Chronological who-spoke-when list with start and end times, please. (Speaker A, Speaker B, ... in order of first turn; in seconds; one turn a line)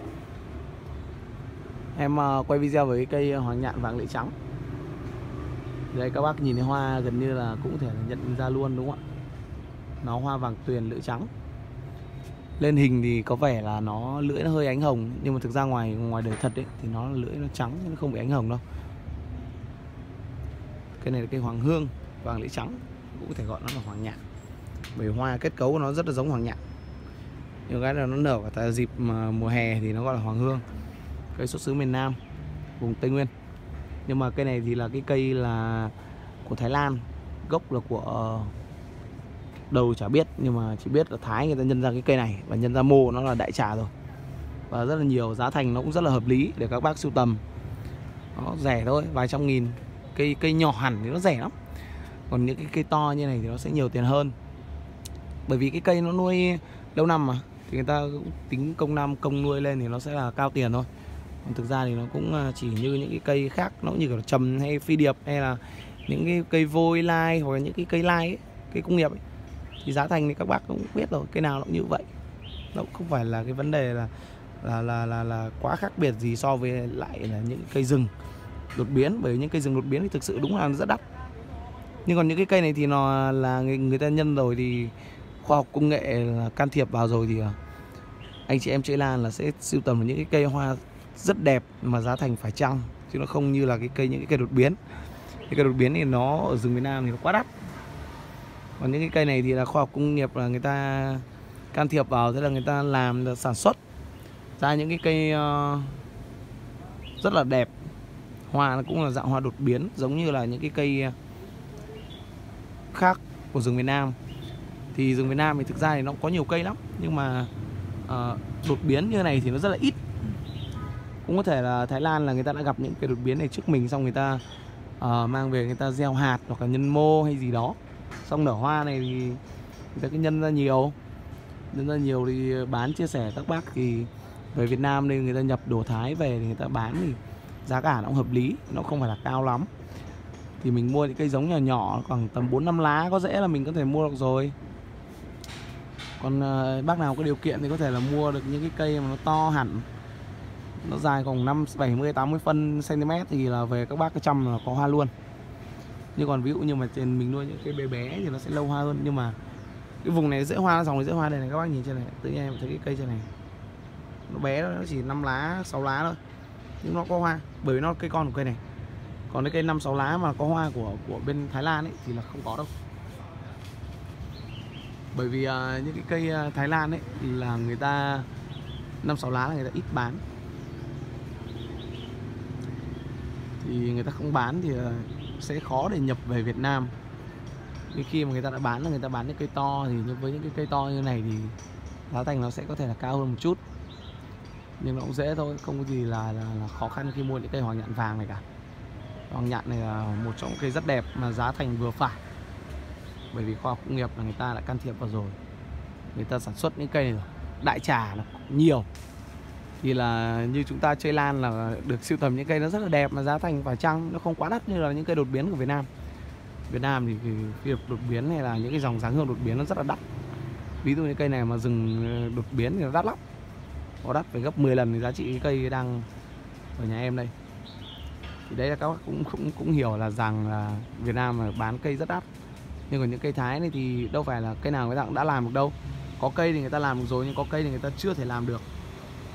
Speaker A: 1.9-4.3
Speaker A: 5.9-9.0
Speaker A: 10.0-11.3
Speaker A: 12.6-18.6
Speaker A: 21.0-24.2
Speaker A: 24.9-26.6
Speaker A: 27.7-30.6
Speaker A: 31.3-32.2
Speaker A: 32.8-33.3
Speaker A: 34.0-38.5
Speaker A: 39.7-43.9
Speaker A: 44.7-47.4
Speaker A: 48.3-51.5
Speaker A: 52.3-54.3
Speaker A: 55.5-60.9
Speaker A: 61.4-69.2
Speaker A: 69.8-72.1
Speaker A: 72.7-78.1
Speaker A: 78.7-81.0
Speaker A: 82.0-87.6
Speaker A: 88.5-94.8
Speaker A: 95.5-97.5
Speaker A: 98.8-103.8
Speaker A: 104.6-106.0
Speaker A: 107.2-107.7
Speaker A: 108.5-111.1
Speaker A: 112.9-114.2
Speaker A: 114.9-117.5
Speaker A: 118.1-120.0
Speaker A: 121.2-124.4
Speaker A: 125.0-129.4
Speaker A: 129.9-130.9
Speaker A: 131.7-139.7
Speaker A: 140.6-144.5
Speaker A: 146.2-149.9
Speaker A: 150.8-155.1
Speaker A: 156.2-159.4
Speaker A: 160.0-163.3
Speaker A: 164.3-166.2
Speaker A: 166.8-168.6
Speaker A: 169.3-172.7
Speaker A: 175.1-178.3
Speaker A: 179.0-180.2
Speaker A: 183.6-186.9
Speaker A: 187.9-191.6
Speaker A: 192.1-193.6
Speaker A: 194.8-198.4
Speaker A: 199.3-202.2
Speaker A: 203.3-205.4
Speaker A: 206.1-208.9
Speaker A: 209.8-215.9
Speaker A: 216.7-220.0
Speaker A: 220.8-223.2
Speaker A: 224.0-226.1
Speaker A: 226.8-227.3
Speaker A: 228.5-232.2
Speaker A: 232.9-238.6